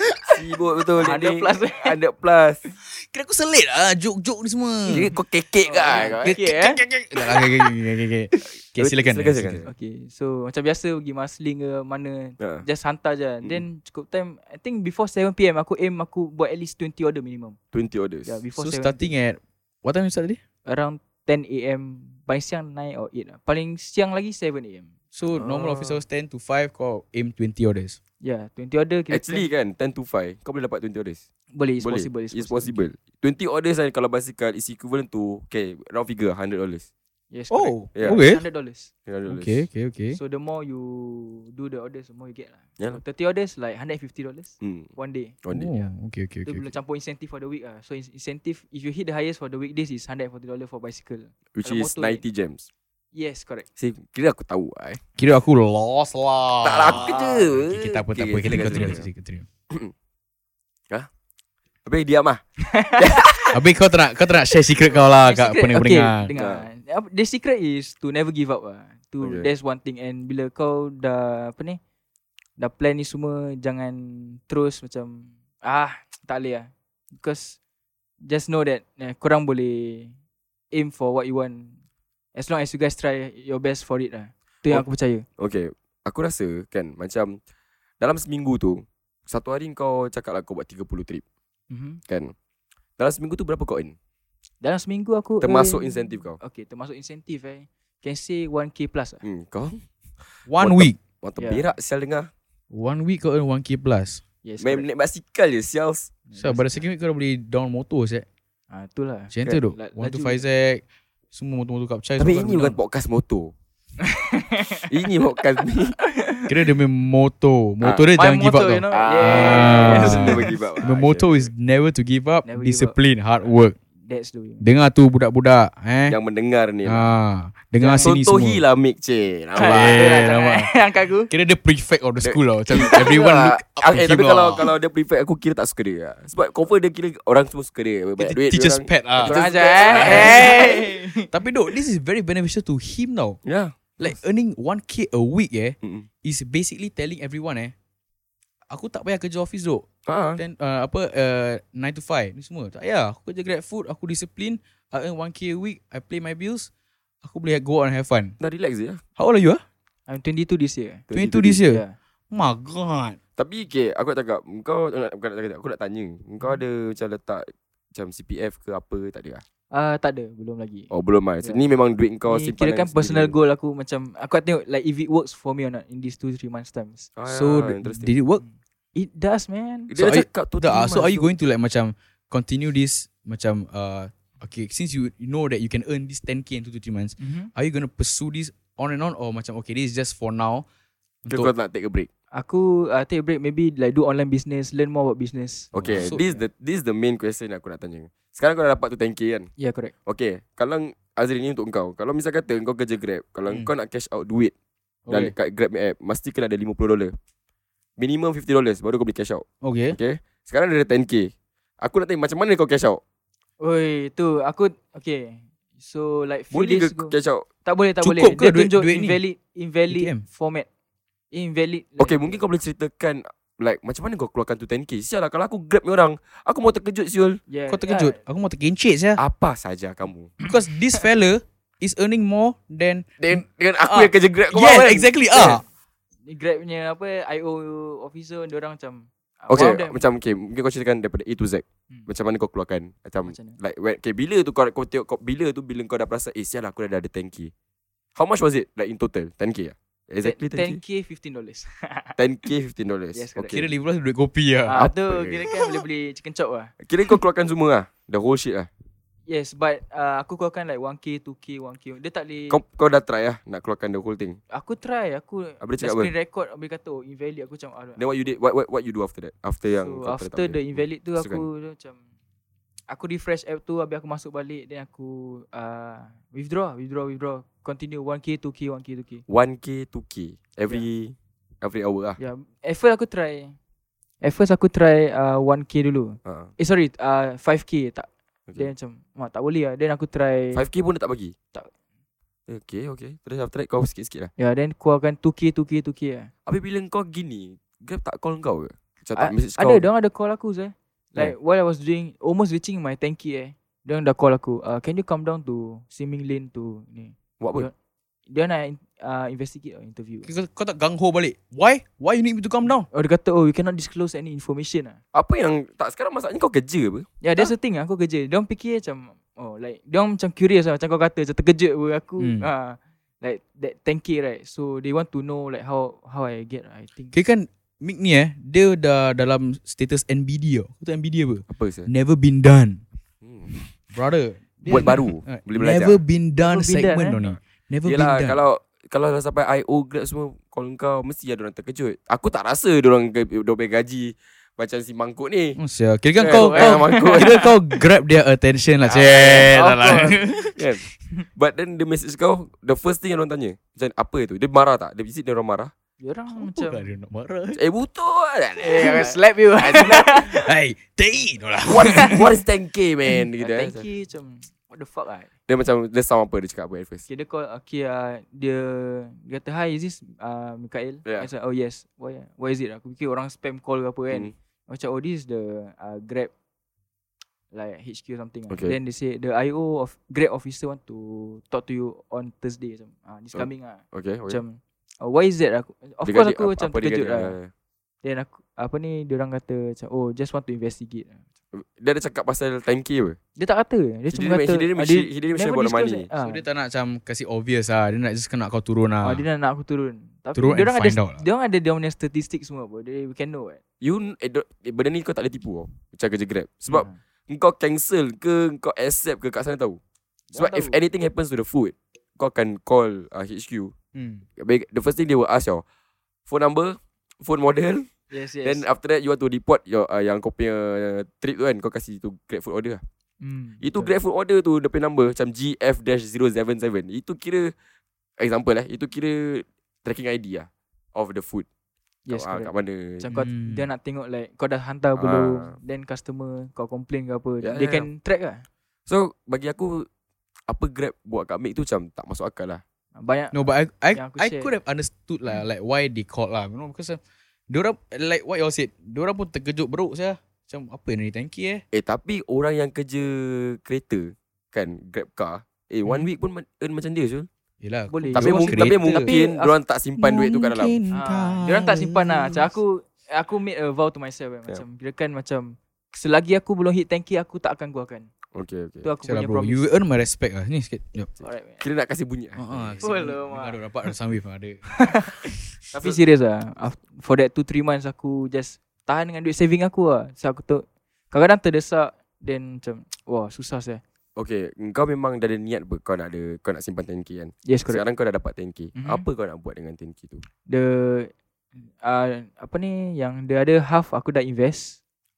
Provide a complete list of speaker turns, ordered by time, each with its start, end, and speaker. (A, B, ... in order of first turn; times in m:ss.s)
0:00.3-0:02.6 A
0:01.0-0:02.0 B
0:02.9-0:05.1 C
0:04.9-0:06.3 A
0:05.6-0:06.8 B
0:06.2-0:09.6 C
0:08.8-0:09.7 A
0:09.6-0:17.6 B
0:12.4-0:12.6 A
0:17.7-0:18.4 A
0:18.3-0:19.1 B
0:18.6-0:20.4 C
0:20.6-0:26.0 B
0:25.1-0:28.0 C
0:28.2-0:29.5 B
0:29.1-0:31.2 A
0:31.5-0:32.8 B
0:31.8-0:36.9 A
0:37.3-0:38.9 B
0:37.5-0:38.4 C
0:38.0-0:38.2 A
0:39.1-0:39.6 A
0:39.3-0:40.2 C
0:40.1-0:45.9 B
0:44.6-0:44.9 A
0:45.4-0:45.7 A
0:45.5-0:46.8 C
0:46.4-0:52.2 B
0:51.6-0:52.7 A
0:53.2-0:53.7 B
0:53.8-0:55.0 A
0:55.2-0:59.5 C
0:56.6-0:59.0 A
1:01.8-1:02.4 A
1:02.6-1:03.5 B
1:03.0-1:03.4 A
1:03.5-1:06.3 C
1:05.0-1:11.8 B
1:06.4-1:06.7 A
1:09.2-1:09.5 A
1:12.6-1:17.6 B
1:18.3-1:20.1 B
1:20.7-1:21.8 B
1:22.4-1:25.2 B
1:25.4-1:27.4 A
1:28.0-1:31.2 A
1:31.7-1:32.0 B
1:32.1-1:32.3 A
1:33.0-1:34.0 A
1:34.6-1:39.2 B
1:35.4-1:36.4 A
1:39.2-1:39.8 A
1:40.5-1:41.0 C
1:40.6-1:42.3 A
1:41.4-1:41.7 B
1:42.7-1:44.2 C
1:44.4-1:44.9 B
1:44.6-1:46.1 A
1:46.3-1:46.8 B
1:46.4-1:48.3 C
1:48.7-1:50.4 B
1:49.3-1:52.8 C
1:52.2-1:53.5 A
1:54.0-1:54.9 B
1:54.9-1:56.0 A
1:56.1-1:56.5 B
1:56.5-2:03.8 C
1:57.8-1:58.1 A
1:58.2-2:00.6 B
1:58.9-2:01.5 A
2:02.5-2:03.0 B
2:04.0-2:04.6 B
2:04.6-2:06.2 C
2:06.1-2:07.1 A
2:06.8-2:08.6 C
2:07.8-2:08.2 B
2:08.0-2:10.3 A
2:09.6-2:10.7 C
2:09.6-2:11.3 B
2:11.3-2:14.7 C
2:12.2-2:20.7 A
2:18.2-2:20.7 C
2:19.2-2:21.3 B
2:21.3-2:23.4 C
2:23.4-2:23.8 A
2:24.0-2:27.7 C
2:25.8-2:26.1 A
2:28.7-2:36.7 C
2:30.1-2:30.4 A
2:37.2-2:38.4 C
2:38.4-2:39.0 A
2:39.2-2:39.6 C
2:40.1-2:41.0 B
2:41.1-2:41.6 A
2:41.1-2:43.2 C
2:41.7-2:42.0 B
2:43.4-2:49.4 A
2:49.7-2:50.9 B
2:50.9-2:53.3 A
2:52.3-2:57.1 B
2:57.2-2:58.1 A
2:57.3-2:58.4 C
2:58.4-2:59.9 B
2:59.9-3:01.3 A
3:00.0-3:10.6 C
3:07.2-3:07.5 B
3:11.2-3:11.5 C
3:11.3-3:12.1 A
3:12.3-3:15.7 B
3:15.7-3:19.5 A
3:15.8-3:16.4 C
3:19.6-3:19.9 B
3:20.1-3:24.5 A
3:25.1-3:25.3 C
3:25.1-3:27.2 A
3:28.0-3:33.0 A
3:29.6-3:30.0 C
3:33.6-3:37.1 B
3:36.5-3:37.5 A
3:37.6-3:40.7 B
3:38.0-3:39.2 C
3:39.9-3:40.2 C
3:41.3-3:42.4 B
3:42.0-3:47.4 A
3:47.5-3:48.2 B
3:47.7-3:49.2 C
3:49.2-3:50.3 A
3:50.4-3:55.6 C
3:53.2-3:55.6 A
3:56.3-4:00.0 B
3:59.5-4:07.5 A
4:03.2-4:03.6 B
4:08.2-4:10.8 A
4:10.2-4:12.2 B
4:12.2-4:13.7 A
4:13.1-4:13.6 B
4:13.5-4:14.8 C
4:14.7-4:16.7 B
4:14.8-4:15.5 A
4:16.8-4:18.7 A
4:19.3-4:22.6 B
4:22.5-4:24.4 A
4:24.5-4:28.0 B
4:25.6-4:26.1 A
4:28.0-4:31.5 A
4:29.8-4:32.0 B
4:32.9-4:39.2 B
4:39.3-4:42.2 A
4:42.2-4:43.6 B
4:44.2-4:50.6 B
4:46.2-4:46.5 A
4:50.5-4:51.3 A
4:52.5-4:54.3 A
4:54.4-4:56.3 B
4:56.5-4:59.9 A
4:59.2-5:07.7 B
5:07.4-5:07.7 A
5:08.3-5:10.3 B
5:10.3-5:12.9 C
5:12.9-5:15.0 B
5:15.1-5:17.1 A
5:17.2-5:27.1 B
5:22.2-5:22.5 C
5:27.1-5:32.8 C
5:31.5-5:31.9 A
5:33.2-5:33.7 A
5:33.9-5:38.4 C
5:34.7-5:36.0 A
5:36.5-5:37.2 B
5:37.8-5:45.6 A
5:45.6-5:50.5 C
5:46.2-5:47.5 A
5:46.2-5:47.5 B
5:48.9-5:49.6 A
5:49.5-5:50.6 B
5:50.6-5:50.8 A
5:51.4-5:55.7 A
5:56.0-5:56.9 B
5:56.3-5:57.6 C
5:57.6-6:00.2 A
5:58.6-6:00.5 B
6:00.3-6:02.2 C
6:01.7-6:03.8 A
6:01.9-6:02.2 B
6:03.4-6:05.3 B
6:05.5-6:07.0 A
6:07.1-6:16.3 B
6:17.5-6:27.4 B
6:18.5-6:18.8 A
6:23.3-6:24.4 A
6:26.0-6:27.5 A
6:28.0-6:31.2 B
6:31.5-6:33.2 A
6:33.4-6:36.4 B
6:34.1-6:36.1 A
6:36.2-6:39.2 C
6:39.0-6:43.6 B
6:40.4-6:41.2 C
6:43.8-6:49.8 A
6:46.7-6:47.0 B
6:50.3-6:50.8 B
6:50.3-6:53.7 A
6:54.0-6:54.2 C
6:54.4-6:55.6 A
6:56.3-6:57.9 A
6:58.1-6:58.6 B
6:58.4-7:02.8 A
7:03.2-7:03.9 B
7:03.6-7:07.5 A
7:08.2-7:11.5 A
7:12.1-7:12.5 B
7:12.1-7:13.0 A
7:13.0-7:18.4 B
7:13.0-7:13.6 C
7:15.0-7:15.6 A
7:17.4-7:17.9 A
7:18.9-7:19.9 A
7:20.5-7:22.6 A
7:23.0-7:24.5 B
7:23.3-7:27.0 C
7:27.5-7:31.6 C
7:31.7-7:37.3 A
7:37.6-7:39.1 C
7:37.9-7:39.6 B
7:38.1-7:40.8 A
7:40.0-7:42.5 C
7:40.9-7:48.1 B
7:48.3-7:48.9 A
7:48.8-7:49.7 B
7:49.0-7:51.1 C
7:51.2-7:51.6 B
7:51.6-7:52.8 A
7:52.4-7:54.7 C
7:52.8-7:53.6 B
7:54.9-7:55.2 B
7:55.7-8:03.8 B
7:55.7-7:56.0 A
8:04.2-8:10.2 A
8:07.5-8:07.8 B
8:08.8-8:09.0 B
8:10.5-8:11.1 B
8:11.8-8:14.8 B